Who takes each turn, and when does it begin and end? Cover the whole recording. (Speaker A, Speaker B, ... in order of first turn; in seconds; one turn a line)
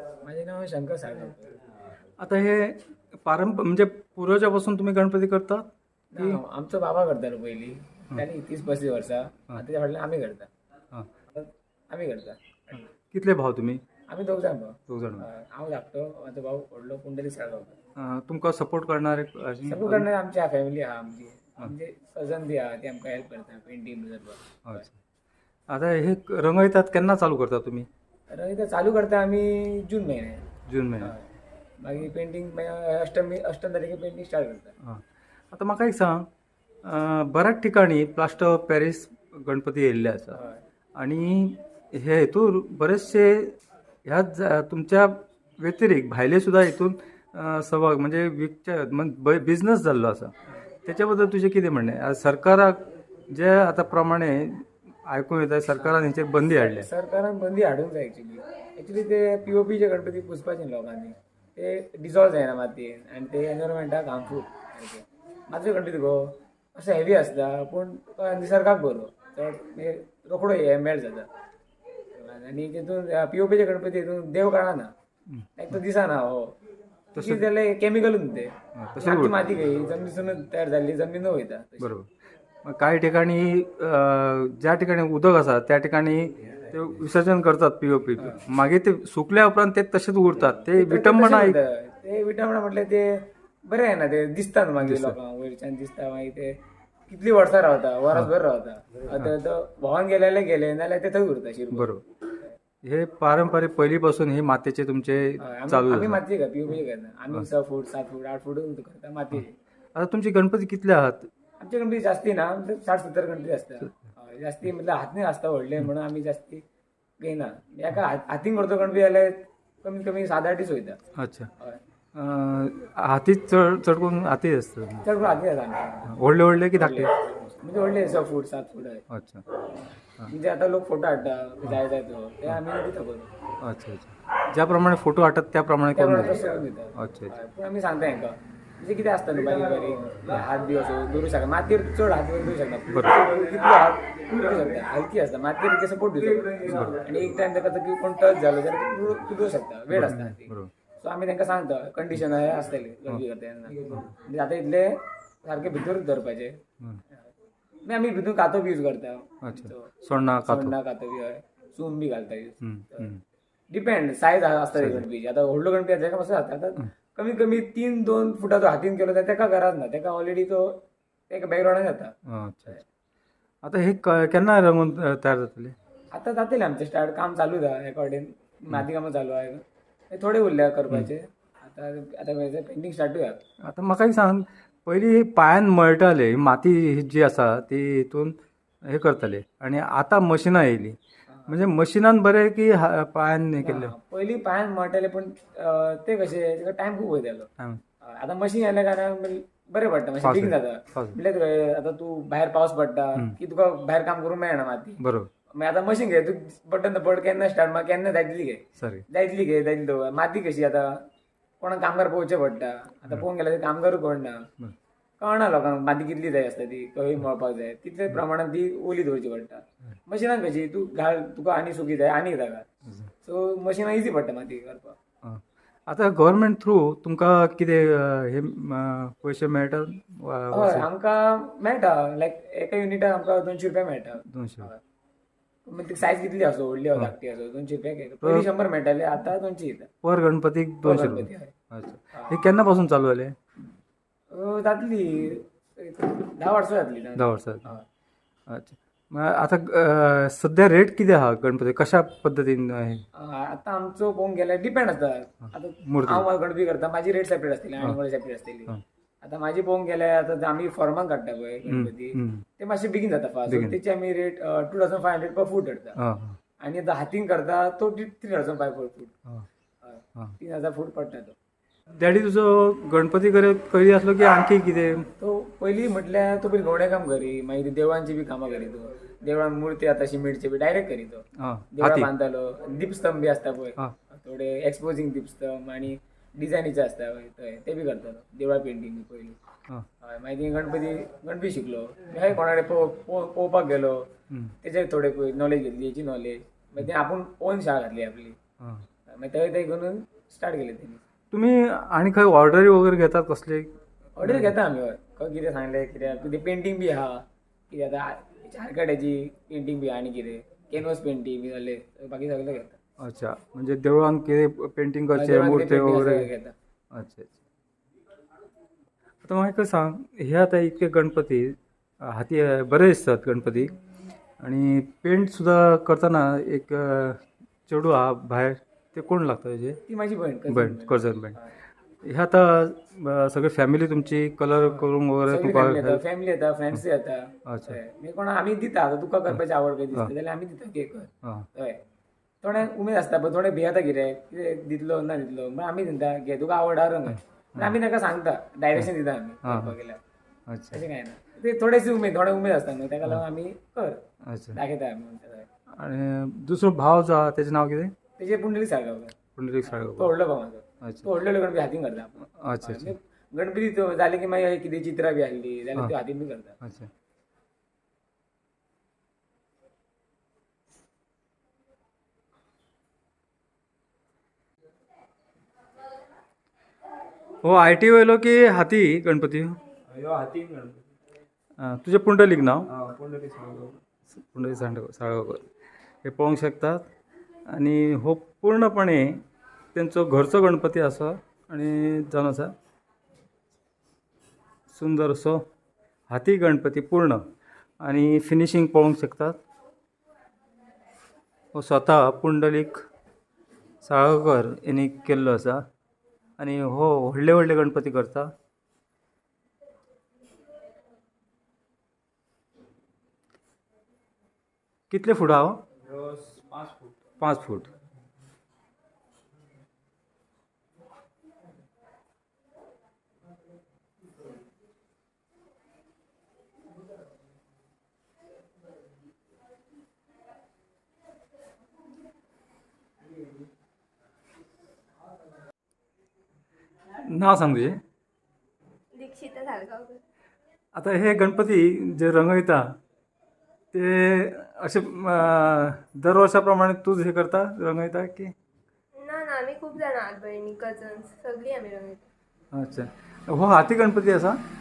Speaker A: 0.2-1.5
Speaker B: 2.2-6.4
Speaker A: 6.1-10.5
Speaker A: 11.3-12.9
Speaker B: 13.0-13.8
Speaker A: 14.1-17.8
Speaker B: 14.9-15.3
Speaker B: 17.9-20.1
Speaker A: 19.7-24.9
Speaker B: 24.6-24.9
Speaker B: 25.7-27.9
Speaker A: 28.3-30.5
Speaker B: 30.7-31.1
Speaker A: 31.0-31.2
Speaker A: 31.8-34.7
Speaker B: 34.8-36.3
Speaker B: 36.8-40.4
Speaker A: 40.3-40.6
Speaker B: 41.0-50.3
Speaker B: 50.8-56.9
Speaker A: 56.6-71.3
Speaker A: 72.1-74.9
Speaker A: 75.5-76.5
Speaker B: 77.1-77.4
Speaker A: 77.2-81.9
Speaker B: 78.7-79.4
Speaker B: 81.8-82.1
Speaker B: 82.6-91.5
Speaker A: 90.7-96.5
Speaker B: 94.8-95.2
Speaker A: 97.1-101.9
Speaker B: 101.7-102.0
Speaker B: 102.8-106.2
Speaker A: 105.4-109.5
Speaker B: 109.9-111.3
Speaker A: 111.6-116.6
Speaker A: 117.2-121.0
Speaker B: 121.1-121.5
Speaker B: 122.1-125.1
Speaker A: 125.0-126.1
Speaker B: 126.1-127.1
Speaker A: 126.7-129.0
Speaker B: 129.1-129.4
Speaker A: 130.2-133.3
Speaker B: 133.6-137.3
Speaker A: 135.9-154.9
Speaker B: 142.9-143.2
Speaker B: 146.6-147.1
Speaker B: 149.9-150.7
Speaker A: 155.4-156.6
Speaker A: 157.8-163.1
Speaker B: 159.4-160.8
Speaker B: 162.6-163.2
Speaker A: 163.7-172.1
Speaker B: 164.7-165.1
Speaker B: 172.2-172.8
Speaker B: 173.6-175.8
Speaker A: 176.1-183.4
Speaker B: 183.6-193.9
Speaker A: 191.3-191.6
Speaker A: 193.6-197.5
Speaker A: 198.0-205.0
Speaker B: 200.2-201.2
Speaker B: 205.0-205.3
Speaker A: 205.5-210.9
Speaker B: 208.8-209.0
Speaker A: 211.6-214.5
Speaker A: 215.2-222.7
Speaker A: 223.2-225.0
Speaker B: 225.2-230.9
Speaker A: 230.5-234.8
Speaker B: 234.3-234.7
Speaker A: 235.6-239.9
Speaker B: 240.0-243.3
Speaker A: 240.8-241.5
Speaker A: 244.3-247.8
Speaker B: 247.2-247.7
Speaker B: 248.5-253.1
Speaker A: 253.1-265.9
Speaker B: 255.8-256.2
Speaker B: 261.7-262.4
Speaker B: 263.5-263.8
Speaker B: 266.0-266.4
Speaker A: 266.6-269.1
Speaker A: 269.8-271.4
Speaker B: 271.9-275.1
Speaker A: 275.2-289.4
Speaker B: 281.4-282.1
Speaker A: 290.0-294.1
Speaker B: 294.3-294.5
Speaker A: 294.6-298.4
Speaker B: 298.6-298.8
Speaker A: 299.1-301.0
Speaker B: 301.3-304.5
Speaker A: 304.1-312.8
Speaker B: 313.0-316.3
Speaker A: 315.1-316.5
Speaker B: 316.9-317.4
Speaker B: 319.2-323.7
Speaker B: 324.4-329.8
Speaker A: 329.9-331.5
Speaker B: 330.5-331.4
Speaker B: 332.0-336.0
Speaker A: 334.7-341.8
Speaker B: 337.5-337.8
Speaker B: 341.2-341.5
Speaker A: 342.4-350.0
Speaker B: 347.1-347.8
Speaker B: 349.4-349.7
Speaker B: 350.5-350.8
Speaker A: 350.7-354.0
Speaker B: 354.2-354.6
Speaker A: 354.5-355.5
Speaker B: 355.7-357.9
Speaker A: 358.2-366.6
Speaker B: 359.4-360.1
Speaker B: 360.8-361.1
Speaker B: 362.4-362.9
Speaker B: 366.6-366.9
Speaker B: 377.4-379.6
Speaker A: 379.9-380.8
Speaker B: 381.6-382.7
Speaker A: 382.7-383.8
Speaker B: 384.1-385.5
Speaker B: 386.0-386.8
Speaker B: 387.5-392.5
Speaker B: 394.7-395.5
Speaker B: 396.1-397.3
Speaker B: 397.8-399.4
Speaker B: 401.5-402.8
Speaker B: 403.8-405.6
Speaker B: 406.4-408.3
Speaker B: 414.9-415.6
Speaker A: 415.8-416.9
Speaker B: 417.2-417.7
Speaker B: 436.9-437.8
Speaker C: 438.9-440.0
Speaker B: 440.7-442.8
Speaker B: 443.7-448.3
Speaker C: 448.9-452.1
Speaker B: 452.5-454.4